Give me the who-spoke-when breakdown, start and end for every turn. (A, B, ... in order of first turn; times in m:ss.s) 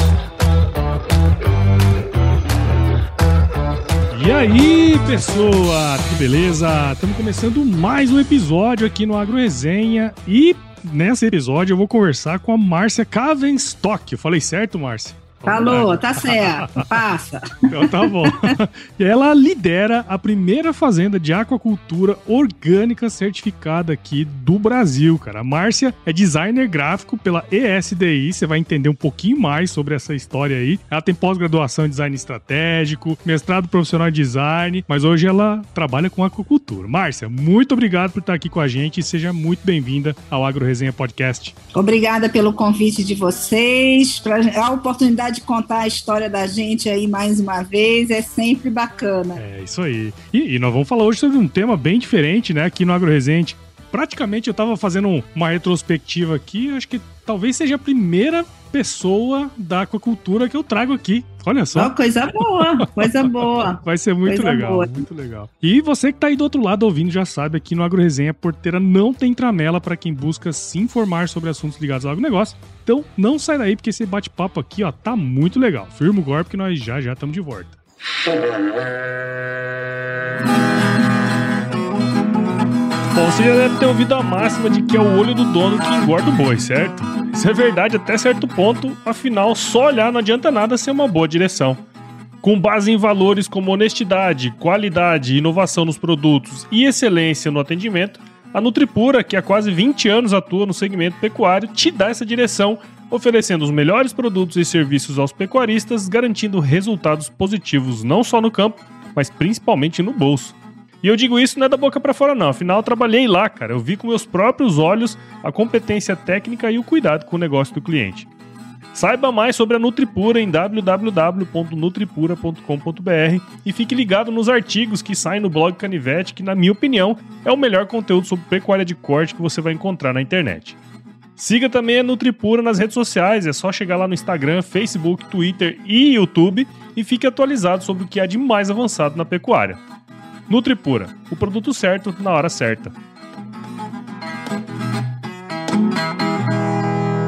0:04.1-0:16.8 A
0:15.4-0:18.6 B
0:17.7-0:41.5 A
0:41.7-0:49.4 B
0:49.4-1:17.8 A
1:01.7-1:05.0 B
1:23.1-1:31.8 A
1:32.4-1:58.3 A
1:58.9-2:10.8 A
2:11.4-2:19.8 A
2:20.5-2:22.9 A